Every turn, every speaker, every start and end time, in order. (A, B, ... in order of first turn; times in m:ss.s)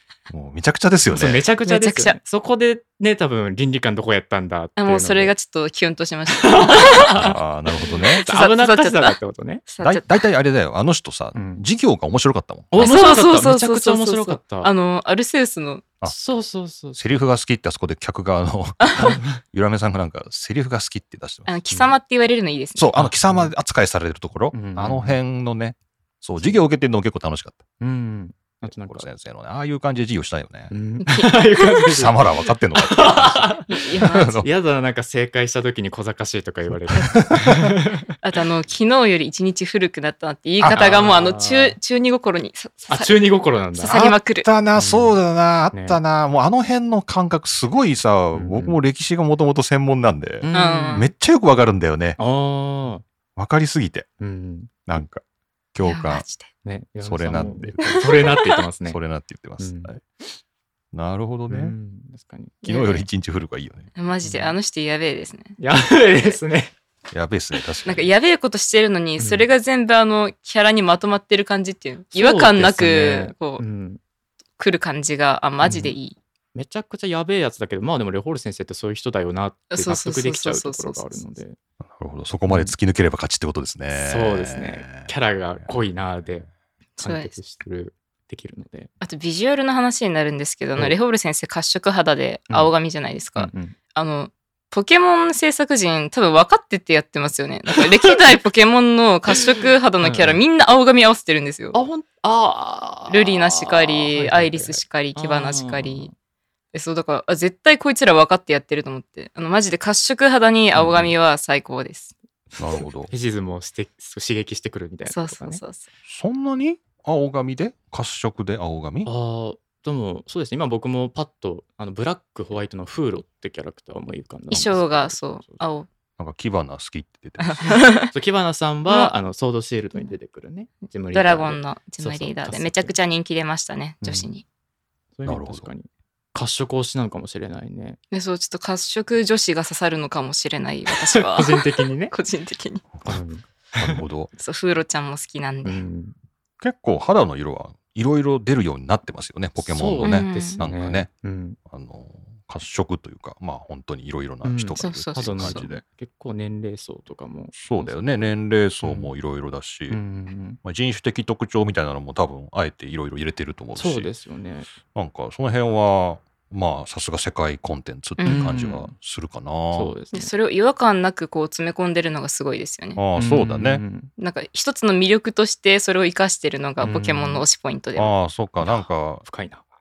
0:00.3-0:01.4 A
0:01.1-0:05.3 B
0:01.6-0:02.2 C
0:04.8-0:07.2 C
0:06.4-0:07.3 B
0:07.1-0:08.2 A
0:08.0-0:09.2 C
0:08.0-0:09.6 B
0:09.7-0:10.2 C
0:09.8-0:12.9 A
0:11.3-0:11.6 B
0:12.7-0:14.7 B
0:12.8-0:15.8 C
0:16.0-0:17.0 B
0:17.0-0:21.6 A
0:18.8-0:19.1 C
0:18.9-0:19.4 B
0:21.5-0:22.9 C
0:22.8-0:27.6 A
0:23.0-0:23.5 B
0:24.5-0:25.2 B
0:27.8-0:29.1 B
0:28.6-0:30.7 A
0:30.7-0:32.2 B
0:31.0-0:31.4 C
0:31.9-0:34.5 A
0:32.8-0:33.7 B
0:33.7-0:34.4 C
0:34.4-0:38.1 B
0:37.0-0:37.8 A
0:38.2-0:43.2 C
0:40.7-0:41.8 B
0:42.9-0:44.0 B
0:43.7-0:44.5 C
0:43.9-0:52.2 A
0:44.8-0:45.1 B
0:45.7-0:46.0 B
0:48.3-0:48.8 B
0:50.4-0:51.0 B
0:50.5-0:51.1 C
0:52.2-0:53.0 B
0:53.4-0:54.1 A
0:54.2-0:54.9 B
0:54.9-0:55.2 A
0:55.7-0:56.2 A
0:55.8-0:56.5 C
0:56.6-0:59.0 B
0:57.0-1:00.0 A
0:59.6-1:00.0 B
1:00.9-1:01.7 A
1:01.5-1:02.6 B
1:02.6-1:03.0 C
1:02.6-1:03.9 A
1:03.9-1:05.6 C
1:04.2-1:04.5 B
1:05.6-1:06.7 B
1:07.1-1:08.1 A
1:07.8-1:13.6 C
1:09.2-1:09.5 B
1:12.1-1:14.0 B
1:14.6-1:16.2 C
1:15.6-1:15.9 B
1:16.5-1:21.6 B
1:19.7-1:21.2 C
1:21.8-1:25.7 A
1:22.5-1:22.7 B
1:23.9-1:28.9 B
1:27.0-1:27.3 C
1:29.0-1:41.8 C
1:33.4-1:33.8 B
1:40.0-1:40.4 B
1:41.7-1:46.1 B
1:43.1-1:46.1 C
1:46.7-1:52.1 C
1:50.7-1:51.1 B
1:52.6-1:53.1 A
1:53.1-1:55.6 B
1:55.1-1:55.8 C
1:56.1-1:59.1 A
1:59.0-2:05.6 B
2:04.5-2:05.9 C
2:06.2-2:07.8 A
2:07.4-2:08.1 C
2:08.1-2:12.9 B
2:11.1-2:14.4 C
2:14.0-2:14.3 B
2:15.2-2:18.0 B
2:15.2-2:15.7 A
2:18.1-2:22.8 C
2:21.1-2:22.1 B
2:23.0-2:24.0 B
2:23.7-2:24.3 A
2:24.4-2:25.8 C
2:25.6-2:26.1 B
2:26.6-2:31.1 A
2:29.6-2:31.6 B
2:30.0-2:30.6 C
2:31.7-2:35.8 A
2:34.4-2:38.2 B
2:34.8-2:35.6 C
2:37.5-2:40.0 A
2:38.8-2:39.1 B
2:39.9-2:40.6 B
2:40.6-2:44.1 A
2:43.7-2:44.7 B
2:44.9-2:49.9 A
2:48.2-2:48.5 C
2:48.2-2:48.9 B
2:49.7-2:50.3 B
2:50.1-2:53.0 C
2:53.0-2:53.8 A
2:53.2-2:54.1 B
2:54.2-2:58.1 C
2:56.8-2:57.4 B
2:58.0-2:59.2 A
2:58.6-2:59.6 B